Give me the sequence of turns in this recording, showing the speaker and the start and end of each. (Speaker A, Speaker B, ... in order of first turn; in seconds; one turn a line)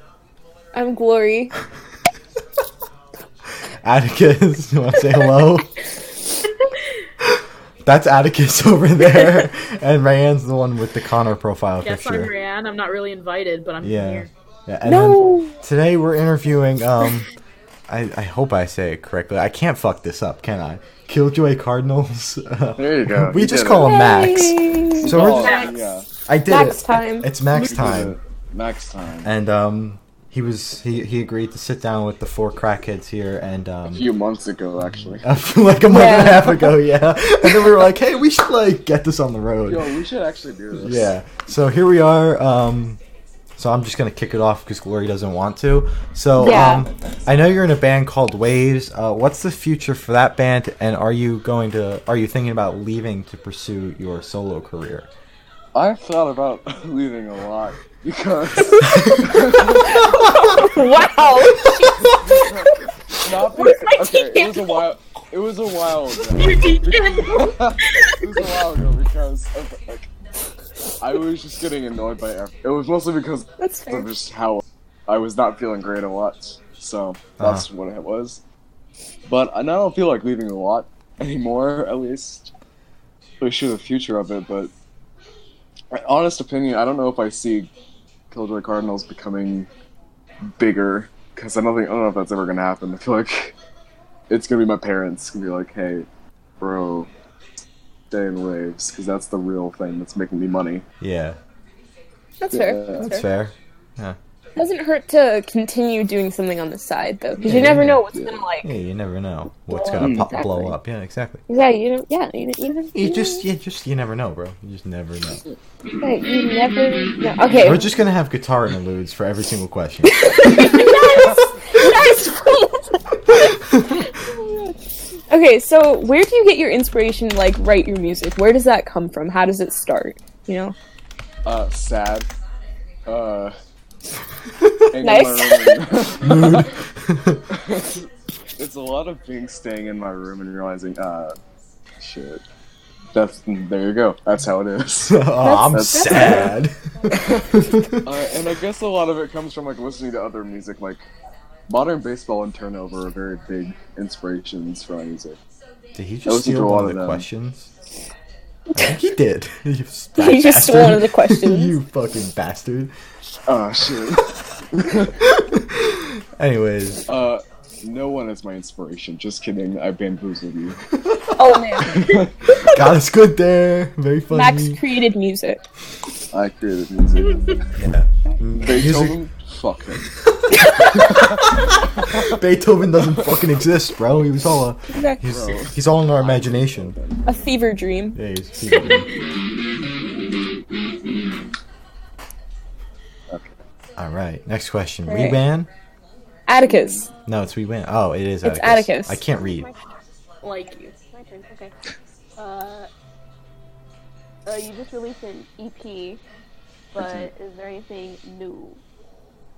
Speaker A: 0.7-1.5
Speaker B: 3.8-5.7
Speaker B: 7.8-12.3
Speaker C: 11.8-14.3
Speaker B: 13.8-17.3
Speaker A: 14.8-15.6
Speaker B: 17.9-25.5
Speaker D: 22.8-23.9
Speaker A: 23.8-25.7
Speaker D: 25.0-26.1
Speaker C: 25.4-25.8
Speaker B: 26.3-28.2
Speaker A: 26.5-27.3
Speaker D: 27.5-29.3
Speaker B: 29.2-34.1
Speaker D: 33.9-35.2
Speaker B: 34.9-39.9
Speaker A: 35.9-36.7
Speaker D: 39.7-41.1
Speaker B: 40.8-43.0
Speaker B: 43.6-55.1
Speaker A: 46.4-46.9
Speaker D: 55.7-60.2
Speaker A: 58.7-59.3
Speaker B: 58.9-59.2
Speaker A: 59.8-62.5
Speaker B: 60.0-60.6
Speaker D: 62.0-70.1
Speaker A: 63.5-64.8
Speaker C: 66.3-67.5
Speaker D: 71.0-78.4
Speaker A: 73.6-74.1
Speaker B: 77.4-77.7
Speaker D: 79.3-82.5
Speaker D: 83.4-84.7
Speaker D: 85.9-87.7
Speaker D: 88.3-89.7
Speaker D: 90.4-93.6
Speaker D: 94.3-96.1
Speaker D: 96.6-97.1
Speaker D: 98.1-100.8
Speaker B: 101.0-101.4
Speaker A: 102.4-103.3
Speaker D: 102.5-103.1
Speaker B: 103.0-104.2
Speaker A: 104.6-108.7
Speaker B: 107.4-108.0
Speaker D: 107.5-108.4
Speaker B: 108.6-111.4
Speaker A: 109.7-110.8
Speaker D: 110.0-110.3
Speaker A: 111.5-113.4
Speaker B: 113.0-115.4
Speaker A: 116.0-118.0
Speaker B: 117.6-120.7
Speaker A: 120.1-124.8
Speaker B: 123.3-124.0
Speaker A: 125.3-130.8
Speaker D: 131.4-132.3
Speaker D: 133.1-133.6
Speaker B: 134.6-134.9
Speaker D: 134.9-136.8
Speaker A: 135.0-135.8
Speaker B: 136.2-137.4
Speaker D: 137.5-141.4
Speaker D: 142.0-142.4
Speaker D: 143.1-145.2
Speaker B: 145.1-148.0
Speaker A: 145.4-146.6
Speaker D: 145.7-146.6
Speaker E: 146.9-147.6
Speaker D: 147.1-151.1
Speaker D: 151.7-155.4
Speaker B: 156.0-157.7
Speaker D: 156.3-157.3
Speaker B: 158.7-162.9
Speaker A: 160.2-161.8
Speaker D: 163.5-165.2
Speaker B: 165.2-167.1
Speaker D: 167.1-170.8
Speaker B: 170.9-171.8
Speaker A: 171.4-172.2
Speaker D: 171.8-172.3
Speaker B: 172.7-174.8
Speaker A: 174.3-175.6
Speaker D: 176.3-177.6
Speaker C: 177.3-177.6
Speaker B: 177.7-179.2
Speaker D: 178.6-180.1
Speaker B: 180.3-187.0
Speaker A: 180.6-181.1
Speaker D: 181.1-182.4
Speaker D: 182.9-183.3
Speaker A: 184.9-185.2
Speaker D: 185.2-187.2
Speaker A: 187.3-188.2
Speaker B: 188.2-189.1
Speaker C: 188.7-189.1
Speaker D: 193.3-193.6
Speaker B: 194.0-195.7
Speaker A: 195.1-195.4
Speaker A: 196.5-197.1
Speaker D: 196.7-197.1
Speaker B: 197.3-199.7
Speaker A: 198.4-199.2
Speaker E: 199.3-199.9
Speaker E: 200.4-201.8
Speaker C: 200.4-200.9
Speaker E: 202.4-202.9
Speaker E: 204.5-206.2
Speaker E: 206.9-208.8
Speaker D: 207.0-207.3